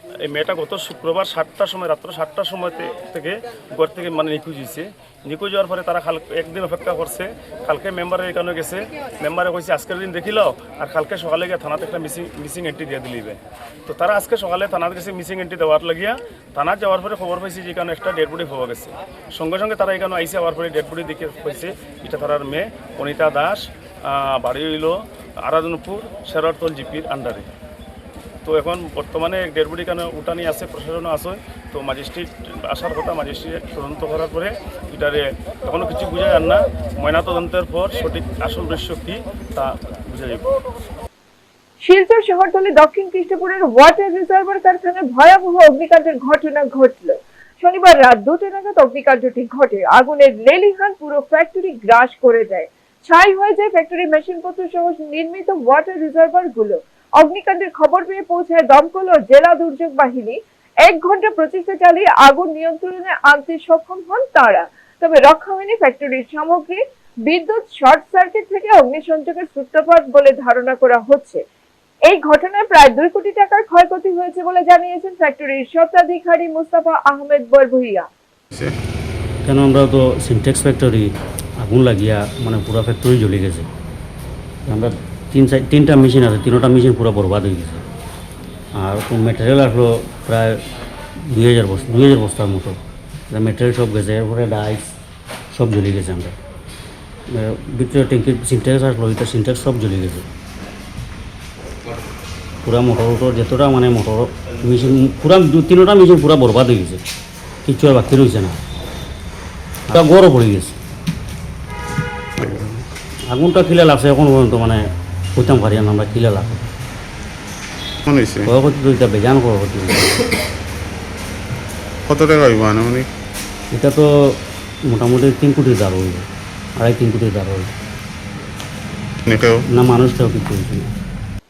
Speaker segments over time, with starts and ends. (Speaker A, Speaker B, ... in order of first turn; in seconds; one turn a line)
Speaker A: 0.3-27.5
Speaker A: 28.4-40.5
Speaker B: 41.8-71.4
Speaker B: 72.1-78.1
Speaker C: 78.5-78.8
Speaker D: 79.5-83.7
Speaker D: 84.7-87.8
Speaker D: 88.8-90.6
Speaker D: 91.3-92.8
Speaker D: 93.3-94.9
Speaker D: 95.5-96.4
Speaker D: 97.3-100.3
Speaker D: 102.6-107.0
Speaker D: 107.7-108.6
Speaker D: 109.9-110.8
Speaker C: 112.4-112.7
Speaker D: 113.3-114.8
Speaker D: 115.4-116.7
Speaker C: 118.0-118.5
Speaker D: 118.5-120.2
Speaker C: 122.0-123.1
Speaker D: 123.7-124.4
Speaker D: 124.9-126.2
Speaker D: 126.8-127.7
Speaker C: 129.3-129.7
Speaker D: 129.7-130.9